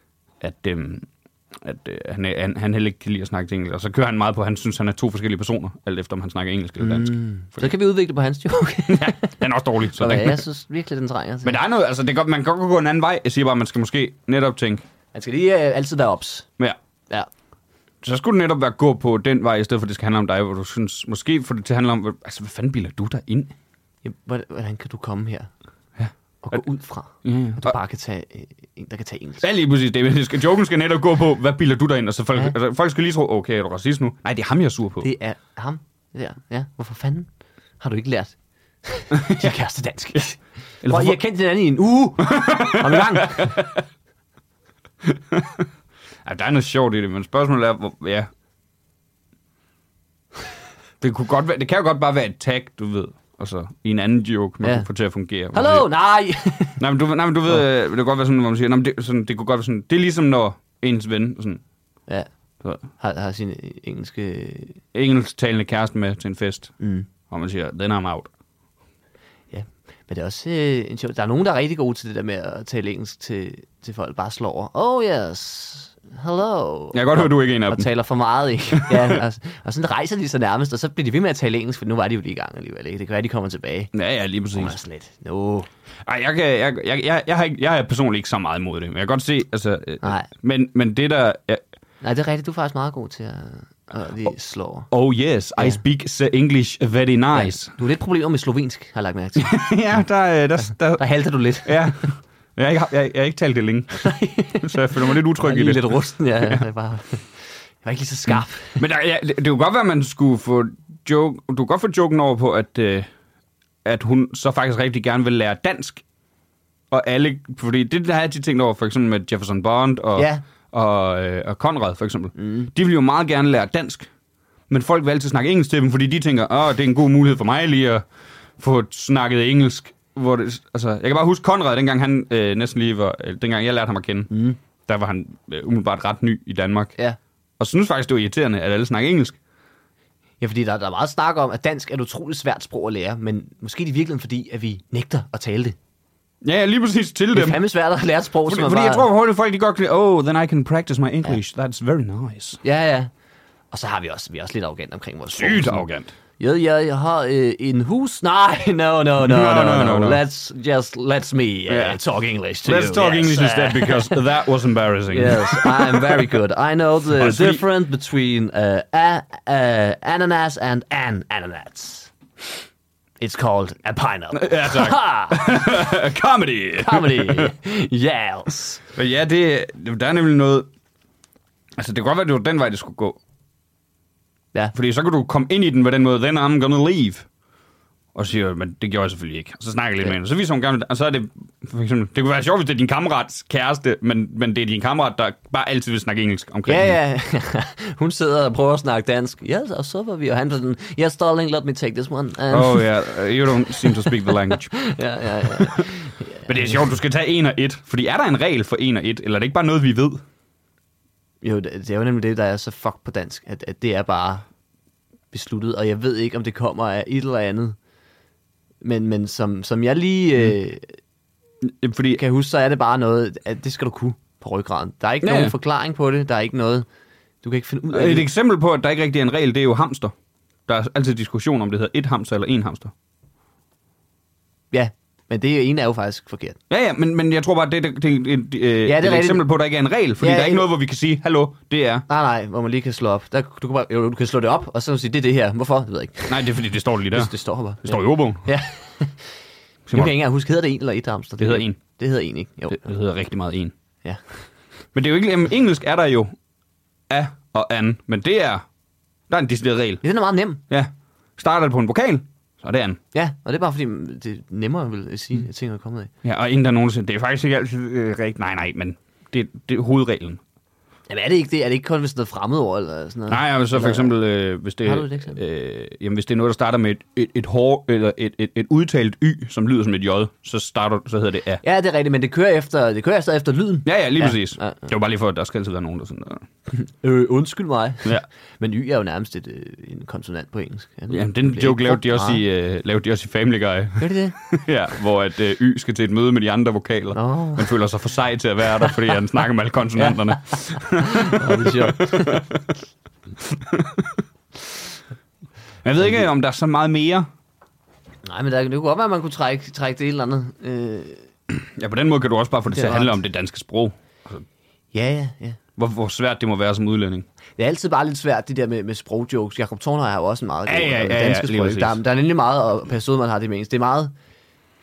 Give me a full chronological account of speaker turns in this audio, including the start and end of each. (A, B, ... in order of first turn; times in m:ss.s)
0:00.4-0:07.7 A
0:06.8-0:09.4 B
0:08.9-0:10.4 A
0:09.9-0:11.6 B
0:11.4-0:14.8 A
0:15.1-0:16.5 B
0:18.0-0:23.5 A
0:24.0-0:25.5 B
0:26.0-0:26.6 A
0:26.4-0:29.4 B
0:27.2-0:27.8 A
0:29.4-0:35.1 A
0:35.0-0:37.3 B
0:37.8-0:43.6 B
0:39.1-0:39.5 A
0:40.8-0:41.2 A
0:42.2-0:43.8 A
0:45.0-0:45.7 A
0:46.2-0:48.3 A
0:51.0-0:55.9 A
0:54.6-0:54.9 B
0:55.5-0:56.8 B
0:56.8-1:01.6 A
1:02.8-1:04.8 B
1:04.9-1:06.7 A
1:06.8-1:07.1 B
1:07.3-1:08.3 A
1:09.5-1:23.9 B
1:16.9-1:17.9 A
1:18.7-1:19.2 A
1:23.9-1:24.8 A
1:24.5-1:25.7 B
1:26.0-1:31.6 A
1:30.0-1:30.3 B
1:32.0-1:34.9 B
1:34.9-1:37.7 A
1:37.3-1:39.6 B
1:39.4-1:41.0 A
1:40.7-1:42.1 B
1:41.6-1:44.1 A
1:44.0-1:48.8 B
1:44.6-1:46.6 A
1:48.8-1:53.1 A
1:53.8-1:56.0 A
1:56.9-2:04.1 A
2:00.2-2:00.4 B
2:02.4-2:02.7 B
2:04.7-2:08.0 A
2:08.6-2:14.3 A
2:14.3-2:14.6 B
2:14.9-2:17.0 A
2:17.6-2:19.4 A
2:20.4-2:25.8 B
2:26.4-2:27.6 A
2:27.3-2:29.1 B
2:28.5-2:32.6 A
2:32.6-2:33.1 B
2:33.7-2:35.9 B
2:35.3-2:36.1 A
2:36.4-2:44.2 B
2:39.2-2:40.2 A
2:41.7-2:42.0 A
2:42.6-2:46.4 A
2:45.1-2:52.1 B
2:47.2-2:47.6 A
2:53.2-2:55.7 B
2:54.3-2:57.5 A
2:56.8-2:58.8 B
2:59.0-3:00.7 A
3:01.8-3:03.2 A
3:04.7-3:07.3 A
3:08.2-3:17.0 A
3:16.7-3:26.8 B
3:22.5-3:24.8 A
3:25.4-3:30.2 A
3:31.4-3:34.5 B
3:35.3-3:37.8 B
3:38.8-3:41.0 B
3:41.6-3:42.2 A
3:42.2-3:46.9 B
3:45.2-3:45.5 A
3:47.4-3:48.3 B
3:47.9-3:50.1 A
3:50.7-3:52.9 A
3:54.7-3:56.6 B
3:56.7-4:02.0 A
3:58.8-3:59.5 B
4:00.2-4:00.7 B
4:02.1-4:06.6 B
4:06.3-4:07.3 A
4:07.1-4:09.3 B
4:07.8-4:08.5 A
4:09.9-4:12.9 B
4:11.4-4:11.8 A
4:12.7-4:13.7 A
4:14.9-4:16.3 A
4:17.1-4:18.6 A
4:19.3-4:20.0 A
4:20.0-4:20.6 B
4:20.7-4:23.0 A
4:23.1-4:26.1 B
4:26.2-4:30.4 A
4:31.1-4:34.1 B
4:33.3-4:41.6 A
4:34.8-4:35.4 B
4:41.6-4:44.8 B
4:43.8-4:46.4 A
4:46.7-4:52.4 B
4:51.1-5:02.6 A
4:54.0-4:54.4 B
4:57.1-4:57.7 B
5:00.0-5:02.5 B
5:03.4-5:04.2 A
5:05.8-5:07.3 A
5:08.2-5:11.3 B
5:11.5-5:14.4 A
5:12.7-5:13.2 B
5:14.9-5:15.6 B
5:15.8-5:17.3 A
5:17.6-5:24.1 B
5:20.7-5:22.0 A